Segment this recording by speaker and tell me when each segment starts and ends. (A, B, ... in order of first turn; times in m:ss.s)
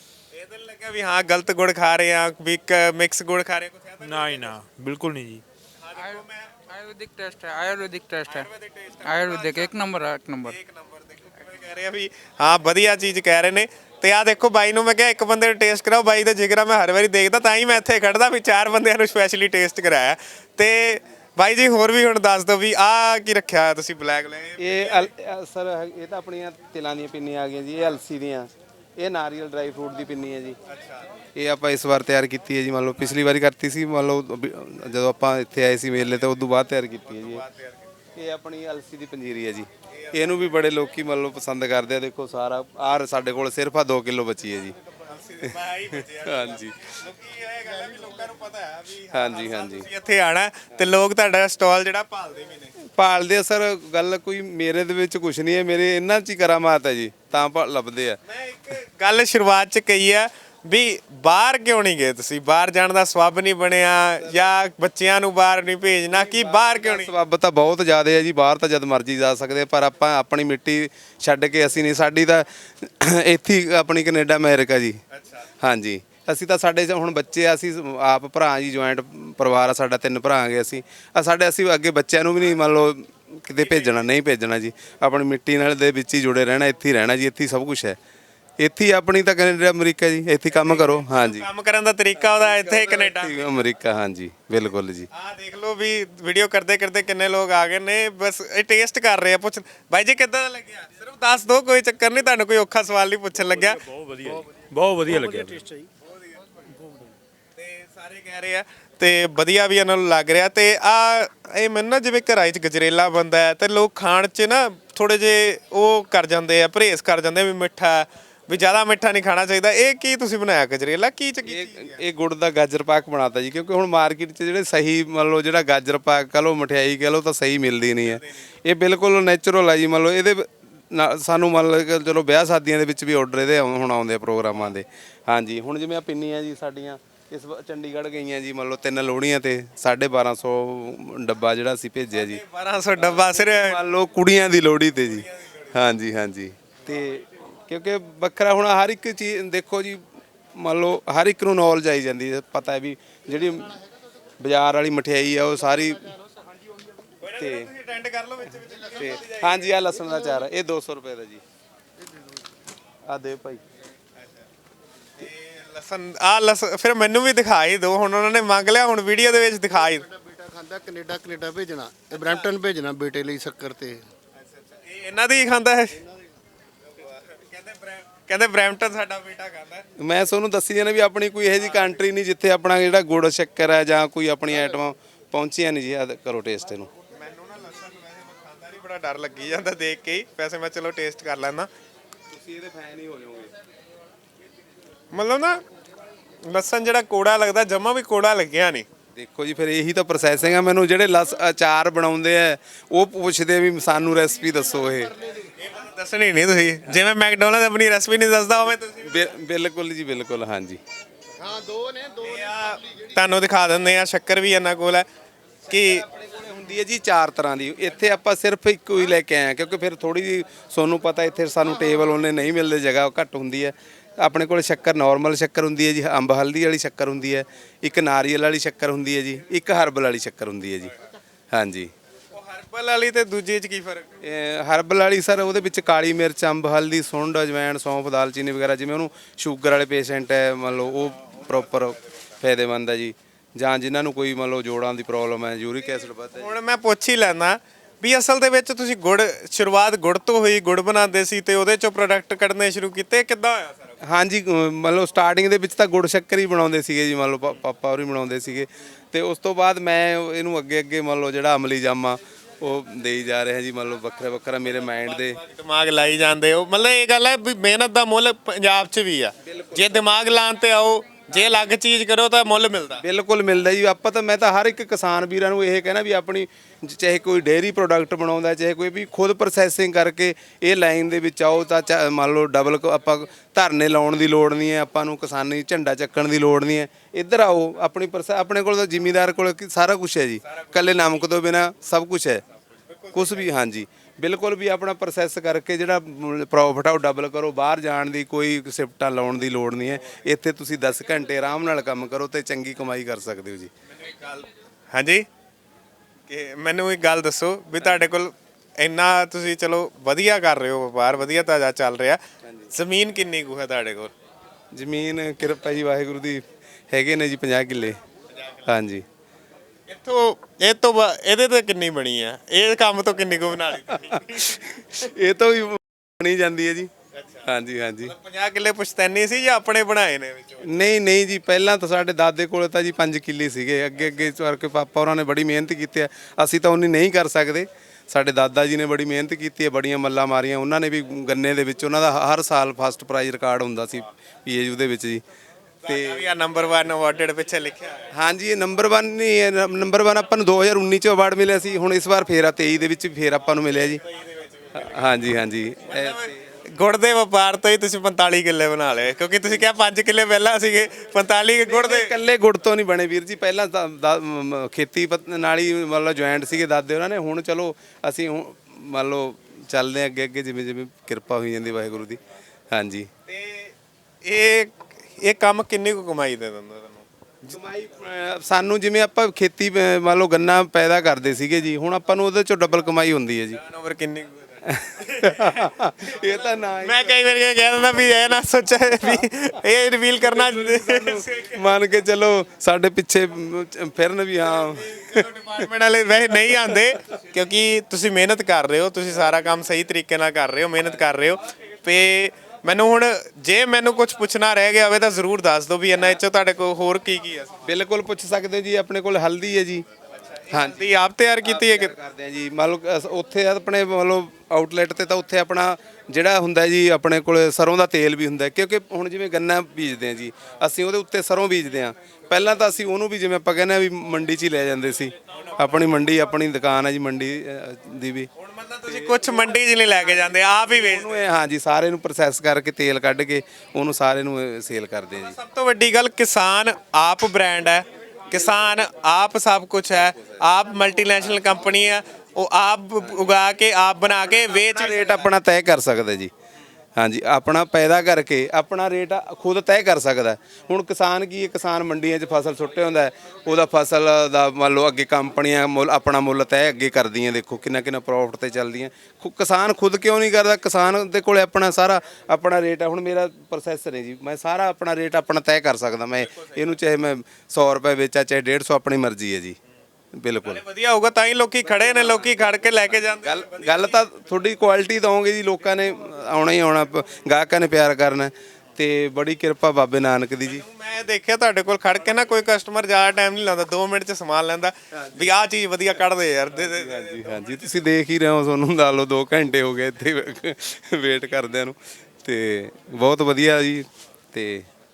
0:00.3-0:04.5 A
0:04.0-0:05.4 B
0:05.8-0:06.7 A
0:06.0-0:08.5 C
0:08.3-0:25.1 A
0:09.0-0:10.6 C
0:24.6-0:30.6 D
0:30.7-0:31.0 A
0:31.3-0:37.4 D
0:37.1-0:37.8 A
0:38.2-0:44.8 D
0:39.9-0:40.4 A
0:45.0-0:52.7 A
0:45.4-0:46.9 D
0:49.1-0:49.9 D
0:52.8-0:58.2 D
0:58.3-1:07.1 A
1:06.1-1:15.0 D
1:15.1-1:15.4 A
1:15.6-1:28.0 D
1:23.6-1:24.0 A
1:28.6-1:31.5 D
1:30.5-1:33.6 A
1:32.2-1:35.1 D
1:35.1-1:43.8 A
1:43.6-1:45.7 B
1:47.6-2:02.0 A
2:01.4-2:22.4 D
2:22.2-2:23.8 A
2:23.0-2:30.0 D
2:30.6-2:33.8 D
2:34.4-2:36.2 D
2:37.2-2:39.9 A
2:37.4-2:37.7 D
2:38.9-2:41.4 D
2:43.1-2:43.6 D
2:45.2-2:50.0 A
2:50.1-2:54.0 E
2:54.7-2:56.0 A
2:57.0-2:59.8 A
3:00.0-3:06.9 D
3:07.1-3:11.7 A
3:12.3-3:13.5 D
3:15.1-3:15.6 A
3:16.5-3:18.8 A
3:19.1-3:25.2 D
3:25.6-3:29.3 A
3:29.0-3:30.8 D
3:31.4-3:32.1 E
3:32.1-3:35.0 A
3:35.7-3:36.0 A
3:36.0-3:50.9 D
3:51.5-3:51.9 D
3:52.3-3:54.2 A
3:54.2-4:06.5 D
4:06.3-4:14.0 A
4:14.0-4:25.4 D
4:24.8-4:33.0 A
4:29.4-4:30.0 D
4:33.0-4:52.4 D
4:52.9-4:53.5 A
4:53.1-5:03.7 D
5:03.9-5:05.2 A
5:06.3-5:12.2 A
5:12.7-5:14.1 A
5:14.7-5:18.0 D
5:18.6-5:19.0 D
5:19.9-5:24.6 A
5:23.9-5:26.9 D
5:27.4-5:28.1 D
5:28.0-5:30.7 A
5:30.6-5:45.2 D
5:45.8-5:48.1 A
5:45.8-5:46.3 D
5:48.1-5:54.0 D
5:54.0-5:54.9 A
5:54.7-5:56.3 D
5:55.9-6:02.1 A
6:01.6-6:12.2 D
6:12.7-6:13.1 D
6:13.3-6:17.5 A
6:17.5-6:23.6 D
6:23.5-6:25.7 A
6:24.6-6:27.2 D
6:26.3-6:31.6 A
6:28.9-6:29.2 D
6:30.2-6:35.6 D
6:34.5-6:47.6 A
6:47.6-6:49.8 D
6:50.3-6:51.9 A
6:50.5-6:50.9 D
6:51.4-7:08.3 D
7:08.4-7:11.1 A
7:08.9-7:15.4 D
7:15.1-7:25.2 A
7:24.7-7:26.3 D
7:27.0-7:49.6 D
7:50.1-7:50.6 D
7:50.4-7:54.0 A
7:53.2-8:00.6 D
8:00.4-8:07.9 A
8:06.6-8:14.7 D